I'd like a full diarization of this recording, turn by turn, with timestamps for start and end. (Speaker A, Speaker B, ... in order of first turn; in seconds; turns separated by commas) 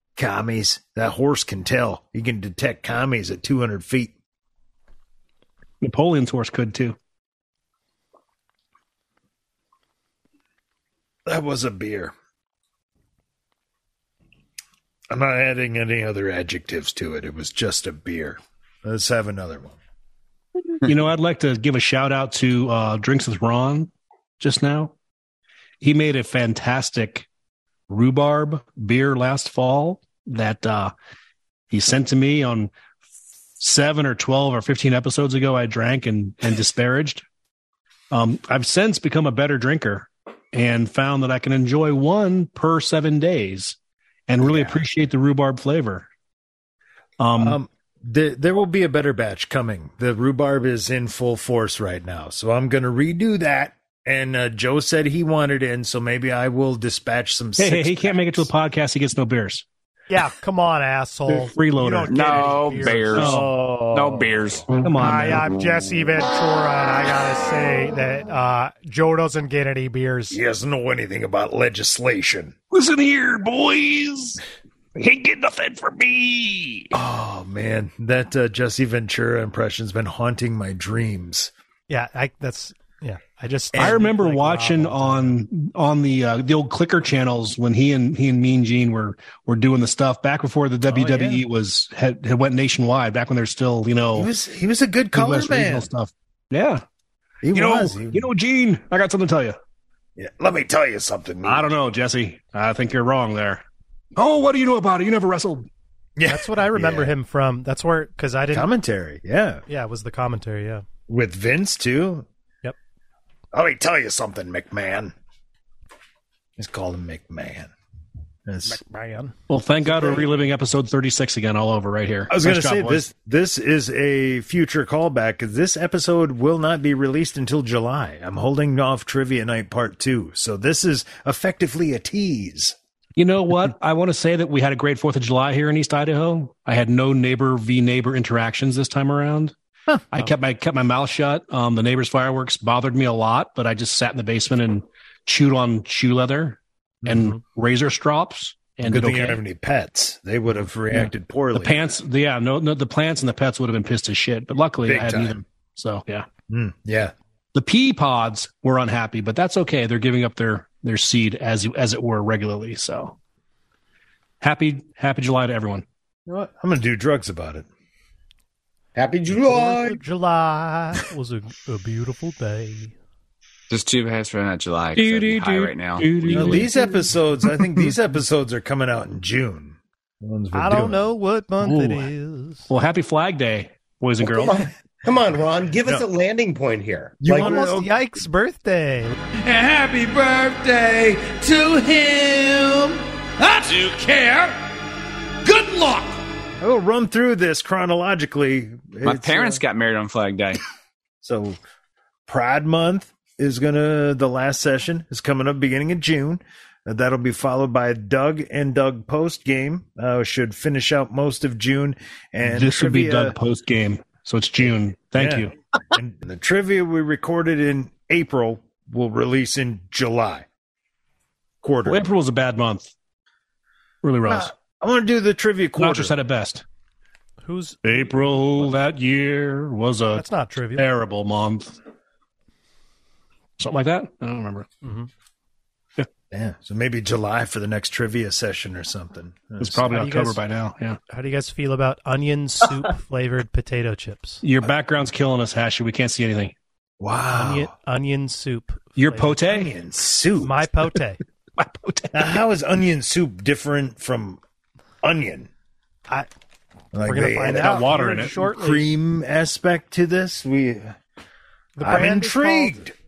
Speaker A: 0.2-4.1, Speaker B: 5.8-7.0, Speaker A: 11.2-12.1, Speaker A: 15.1-19.8, Speaker B: 20.8-24.9, Speaker B: 25.8-27.3, Speaker B: 27.9-30.9, Speaker B: 31.7-32.7, Speaker B: 33.6-37.2, Speaker B: 38.1-43.8, Speaker B: 44.3-46.1, Speaker A: 44.4-44.8, Speaker B: 47.2-47.6, Speaker A: 47.4-58.5, Speaker B: 57.6-59.6, Speaker C: 60.1-63.3, Speaker B: 61.3-62.4, Speaker D: 62.1-64.7, Speaker B: 63.1-63.5, Speaker A: 63.1-64.7, Speaker B: 64.8-65.5, Speaker C: 65.0-70.4, Speaker A: 70.3-72.5, Speaker B: 72.7-74.4, Speaker B: 74.9-76.9, Speaker A: 76.9-81.5, Speaker C: 81.9-85.4, Speaker B: 83.7-94.3, Speaker A: 90.9-91.4, Speaker A: 94.1-95.9, Speaker B: 95.1-96.8, Speaker A: 97.4-98.3, Speaker B: 97.5-99.6, Speaker A: 100.2-101.7, Speaker B: 101.4-103.6, Speaker B: 104.2-105.7, Speaker A: 106.2-107.1, Speaker C: 106.3-108.7, Speaker A: 108.5-109.6, Speaker C: 109.7-110.8, Speaker A: 111.1-112.3, Speaker A: 113.5-115.1, Speaker A: 116.6-117.7, Speaker A: 118.5-118.8, Speaker C: 118.7-119.3, Speaker B: 119.5-123.0, Speaker C: 119.9-120.2, Speaker A: 122.3-132.8, Speaker B: 133.2-139.5, Speaker B: 140.1-149.4, Speaker A: 147.0-147.3, Speaker A: 148.8-151.8, Speaker B: 150.9-156.3, Speaker A: 154.8-155.4, Speaker A: 156.5-157.1, Speaker B: 157.5-163.2, Speaker B: 164.4-165.8, Speaker A: 166.2-167.7, Speaker E: 168.9-170.0, Speaker C: 169.3-172.9, Speaker D: 173.7-176.7, Speaker B: 174.9-177.9, Speaker A: 176.3-181.0, Speaker C: 180.5-182.7, Speaker B: 181.6-182.0, Speaker B: 182.7-184.6, Speaker E: 184.2-187.5, Speaker A: 187.2-187.9, Speaker C: 187.3-189.2, Speaker F: 189.7-192.5, Speaker F: 195.6-195.8, Speaker A: 196.6-199.6, Speaker D: 199.0-200.6, Speaker A: 201.2-201.6, Speaker A: 202.3-213.3, Speaker B: 212.4-215.5, Speaker A: 214.6-220.4, Speaker A: 221.6-222.1, Speaker B: 221.8-222.9, Speaker B: 224.0-224.5, Speaker A: 224.3-226.2, Speaker B: 225.8-226.6, Speaker C: 227.4-227.9, Speaker B: 227.8-231.8, Speaker C: 230.1-230.9, Speaker B: 233.6-234.7, Speaker C: 234.8-235.1, Speaker A: 236.3-239.9, Speaker B: 239.6-241.0, Speaker C: 239.9-240.4, Speaker C: 241.1-244.4, Speaker B: 244.4-246.5, Speaker A: 247.0-247.7, Speaker C: 247.3-249.6, Speaker B: 248.9-249.7, Speaker A: 249.5-250.6, Speaker C: 250.4-251.2, Speaker B: 251.6-252.3, Speaker A: 252.1-254.4, Speaker A: 255.0-255.5, Speaker A: 256.9-261.0, Speaker C: 257.0-258.9, Speaker B: 257.5-258.4, Speaker C: 261.8-262.8, Speaker A: 261.8-262.9